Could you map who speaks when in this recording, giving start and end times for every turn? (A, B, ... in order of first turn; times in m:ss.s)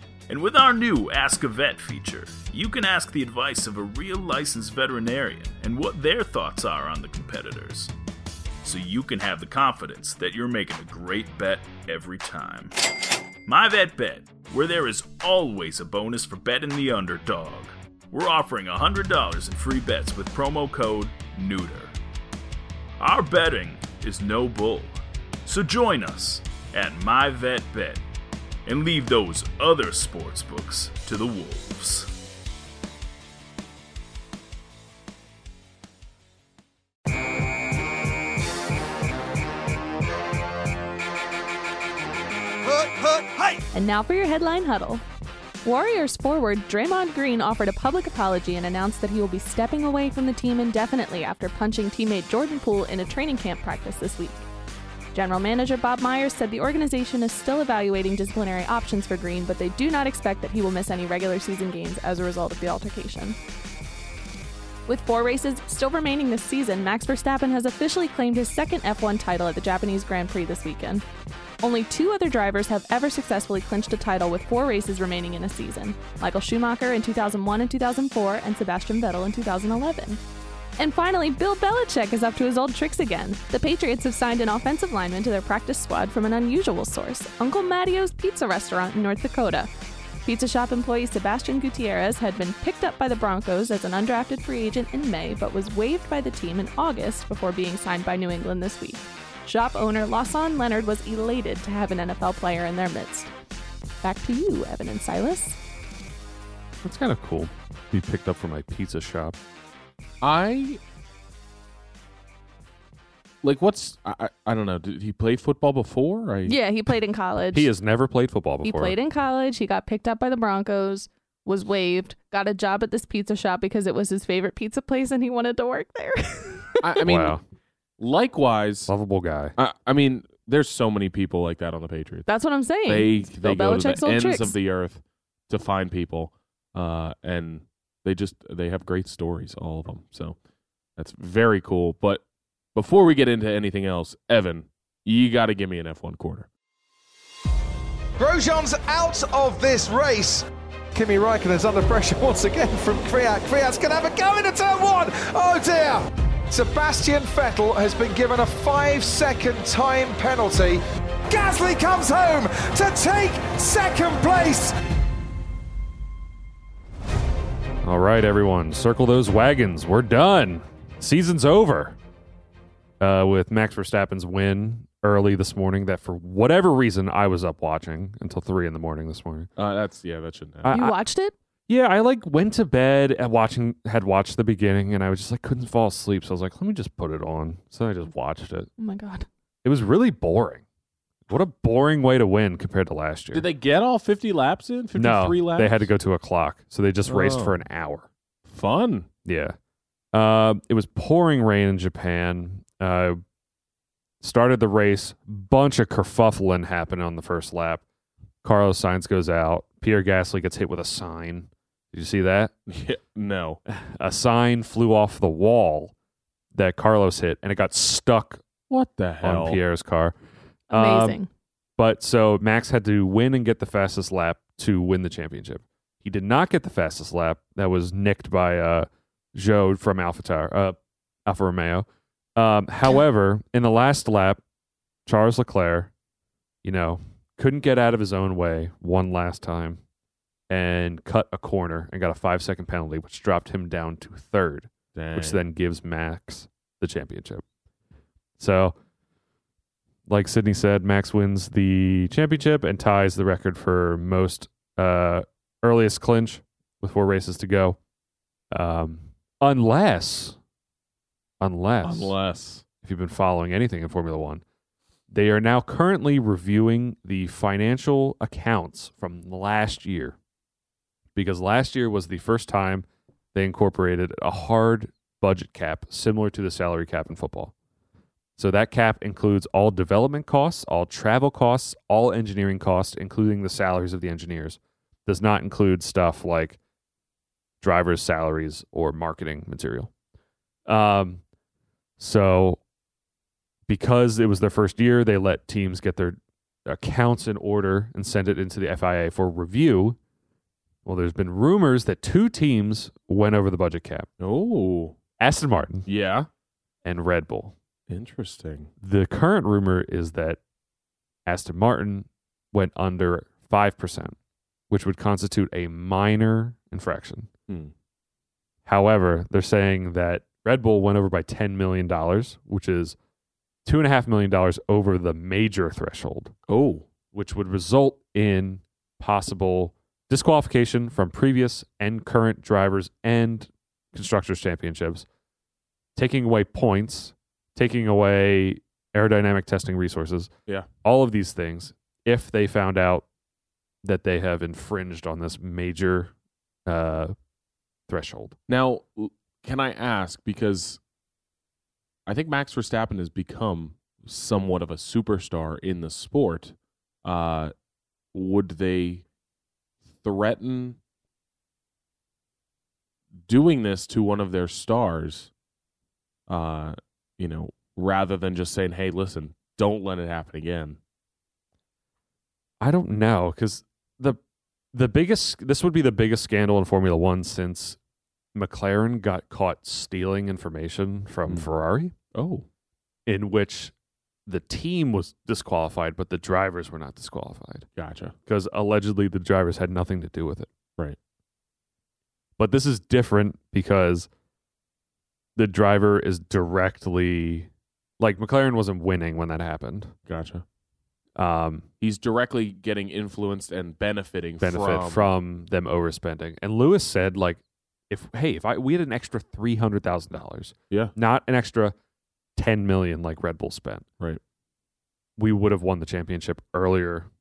0:00.3-0:07.9 A
0:08.6-0:12.7 A
0:13.4-0:21.9 A
0:23.0-0:28.0 A
0:28.6-0:32.1 A
0:43.7-0:45.0 B
0:45.6-0:54.5 B
0:55.1-1:03.4 B
1:04.9-1:11.0 B
1:11.6-1:20.2 B
1:20.8-1:29.7 B
1:30.2-1:43.3 B
1:44.0-1:45.6 B
1:46.8-1:49.4 C
1:50.2-1:50.8 D
1:53.4-1:56.6 D
1:56.4-1:57.7 B
1:57.5-1:58.9 C
1:58.6-2:06.9 B
2:06.8-2:07.4 D
2:07.0-2:07.4 C
2:08.0-2:08.9 D
2:08.9-2:09.6 C
2:09.6-2:12.3 D
2:12.3-2:14.5 B
2:12.8-2:20.4 D
2:21.0-2:22.2 D
2:22.7-2:26.5 D
2:28.2-2:44.7 E
2:47.8-2:52.0 C
2:53.0-2:59.5 C
2:59.6-3:00.7 D
3:00.6-3:01.0 C
3:00.7-3:01.3 B
3:01.7-3:08.7 C
3:08.8-3:09.2 B
3:09.6-3:10.6 C
3:11.3-3:13.5 C
3:13.3-3:15.9 D
3:15.0-3:18.1 C
3:17.0-3:17.6 D
3:18.5-3:19.1 D
3:19.2-3:19.6 C
3:20.1-3:23.2 C
3:24.2-3:27.8 C
3:28.4-3:32.5 C
3:32.7-3:33.6 D
3:33.7-3:35.9 C
3:36.5-3:38.4 C
3:38.7-3:39.6 D
3:39.2-3:40.1 C
3:40.7-3:41.2 C
3:40.7-3:41.3 B
3:41.8-3:54.4 C
3:55.0-3:55.9 C
3:56.6-3:59.8 C
4:00.5-4:07.4 C
4:04.9-4:05.4 D
4:08.4-4:08.8 C
4:10.1-4:17.8 C
4:18.5-4:20.4 C
4:21.4-4:22.2 C
4:21.8-4:22.6 D
4:22.8-4:24.4 C
4:25.1-4:30.2 C
4:31.1-4:37.5 C
4:38.4-4:46.6 C
4:47.6-4:49.9 C
4:50.7-4:51.2 C
4:52.0-4:52.6 C
4:53.7-5:00.0 C
5:00.8-5:04.1 C
5:04.2-5:05.0 D
5:05.2-5:05.8 C
5:05.8-5:06.3 D
5:06.8-5:07.5 C
5:07.9-5:08.7 D
5:08.8-5:10.4 C
5:11.2-5:14.2 C
5:14.7-5:17.3 C
5:18.6-5:23.0 C
5:23.6-5:26.3 C
5:26.5-5:26.8 D
5:27.1-5:35.0 C
5:36.0-5:40.3 C
5:40.8-5:43.0 C
5:43.8-5:46.1 C
5:46.6-5:47.1 C
5:47.9-5:48.4 C
5:48.5-5:50.8 D
5:52.0-5:57.5 D
5:58.1-5:59.0 D
6:00.0-6:00.8 D
6:03.3-6:05.3 D
6:06.3-6:10.8 D
6:12.6-6:14.2 C
6:14.7-6:17.8 C
6:18.3-6:21.9 C
6:22.1-6:22.4 D
6:23.0-6:23.7 C
6:24.2-6:27.7 C
6:27.8-6:28.1 D
6:28.2-6:30.5 C
6:32.4-6:34.1 C
6:35.4-6:39.9 C
6:40.1-6:40.4 D
6:41.2-6:41.7 C
6:41.8-6:45.0 D
6:44.4-6:51.7 C
6:52.4-6:53.8 C
6:55.2-6:57.1 C